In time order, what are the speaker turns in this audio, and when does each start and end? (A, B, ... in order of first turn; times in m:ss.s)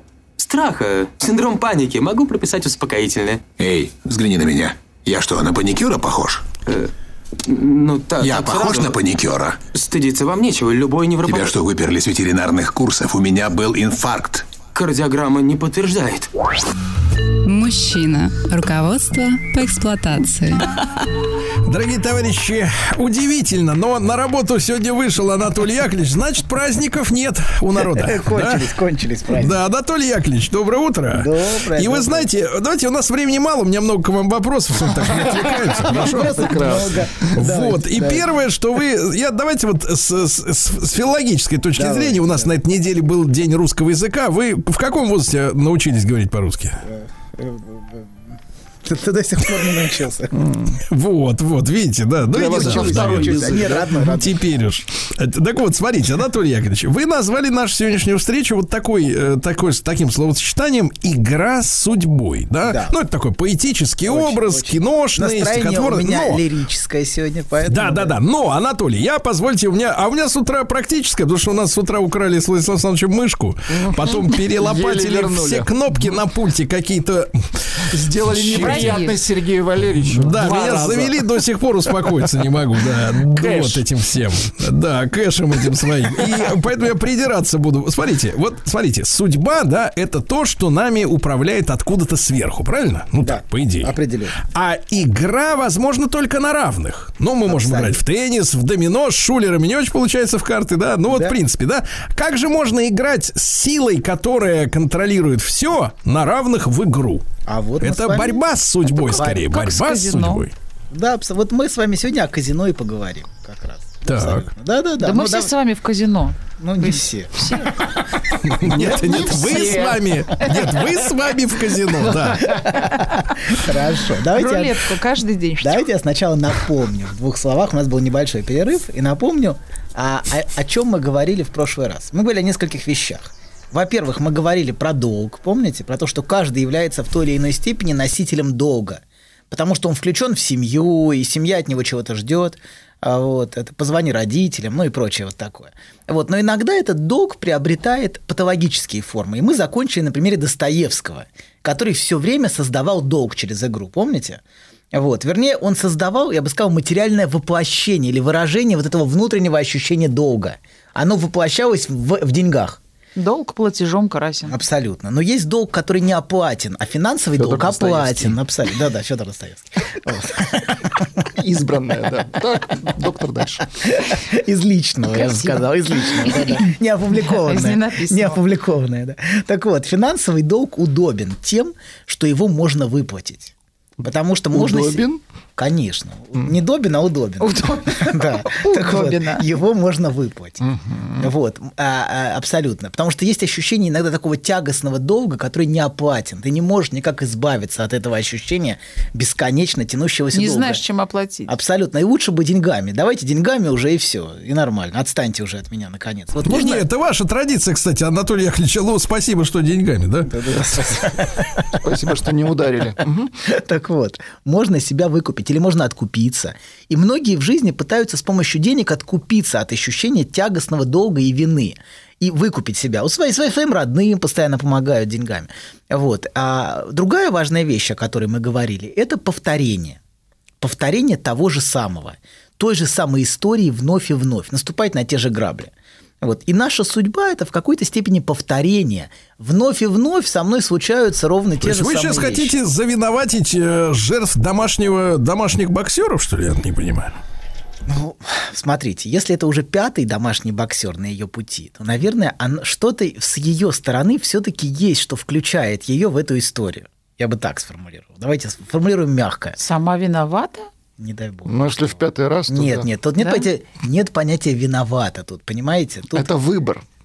0:00.4-0:03.4 A
0:03.6-0:06.4 B
0:07.4-0:09.0 A
0:08.2-0:09.6 B
0:09.7-0:11.5 A
0:11.2-0:14.5 B
0:14.7-0:16.3 A
0:17.4-0:21.1 C
0:21.6-0:28.7 D
0:27.8-0:29.6 E
0:29.3-0:46.8 D
0:31.1-0:32.3 E
0:35.8-0:38.3 E
0:36.0-0:37.3 F
0:41.7-0:42.5 E
0:46.8-0:50.3 E
0:50.3-0:50.8 F
0:50.9-1:06.4 D
0:52.3-0:54.1 F
0:52.3-0:54.5 E
1:02.6-1:02.9 E
1:04.0-1:08.2 E
1:07.7-1:19.0 D
1:13.7-1:15.7 F
1:17.9-1:21.3 F
1:18.6-1:19.2 G
1:20.0-1:47.2 D
1:23.3-1:23.8 F
1:33.2-1:34.4 E
1:37.5-1:38.0 E
1:41.1-1:41.4 E
1:47.4-1:48.4 E
1:47.8-1:50.5 D
1:49.0-1:49.5 E
1:49.0-1:50.4 G
1:50.9-1:55.5 E
1:54.0-1:54.4 D
1:55.0-1:57.8 G
1:56.6-1:57.7 E
1:58.4-2:02.5 D
1:58.6-2:00.0 F
2:02.1-2:03.1 G
2:02.4-2:04.9 E
2:04.3-2:05.9 G
2:05.6-2:34.4 E
2:34.9-2:42.8 E
2:43.2-2:44.6 G
2:44.4-2:51.1 E
2:47.4-2:48.4 F
2:51.3-2:53.7 F
2:53.8-3:05.0 E
2:55.1-2:58.4 G
3:04.5-3:05.2 F
3:05.6-3:10.6 E
3:07.4-3:09.4 G
3:10.6-3:11.3 F
3:11.2-3:20.8 E
3:20.3-3:21.5 G
3:21.5-3:26.8 E
3:26.4-3:30.3 D
3:30.3-3:31.8 E
3:31.8-3:33.3 F
3:33.4-3:50.0 E
3:50.6-3:55.7 E
3:56.2-4:02.6 E
4:01.6-4:07.1 D
4:07.9-4:19.6 E
4:19.6-4:20.7 G
4:21.0-4:26.3 E
4:21.5-4:22.8 F
4:23.2-4:23.5 G
4:26.1-4:26.8 F